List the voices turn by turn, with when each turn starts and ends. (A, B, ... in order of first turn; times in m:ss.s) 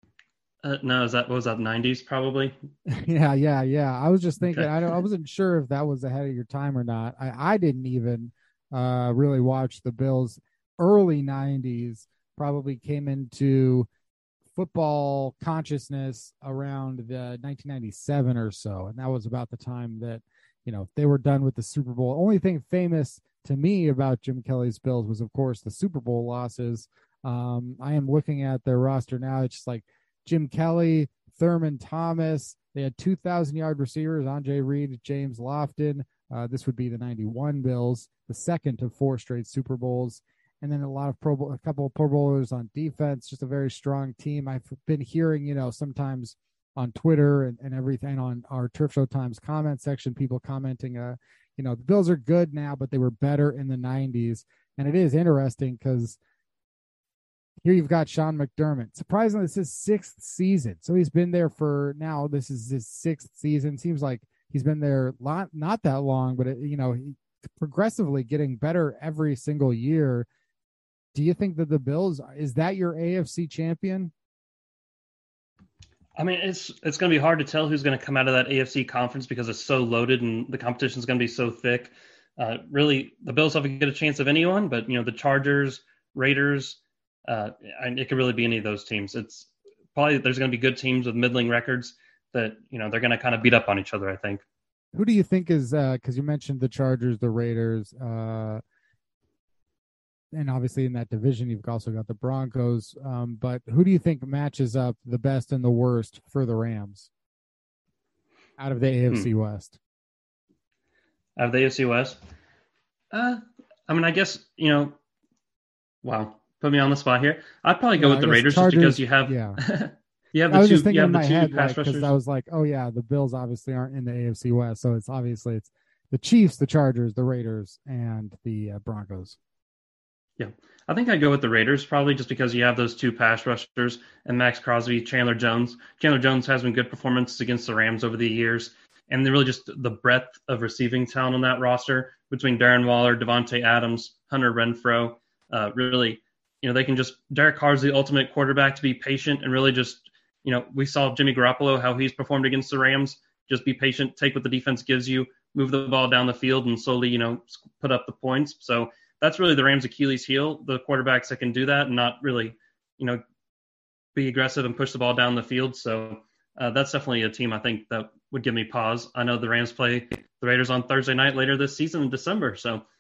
0:00.6-0:02.5 A
0:02.9-0:13.9 B
0:04.4-0:05.0 A
0:14.6-0:56.2 B
0:57.6-1:10.3 B
1:11.1-1:14.1 B
1:16.2-1:34.4 A
1:34.9-1:38.6 B
1:40.3-1:47.1 B
1:48.6-1:49.8 B
1:51.4-1:52.2 A
1:53.1-1:55.0 A
1:56.0-2:02.1 A
1:58.0-1:59.6 B
2:00.5-2:09.4 B
2:10.4-2:43.2 A
2:44.1-2:52.8 A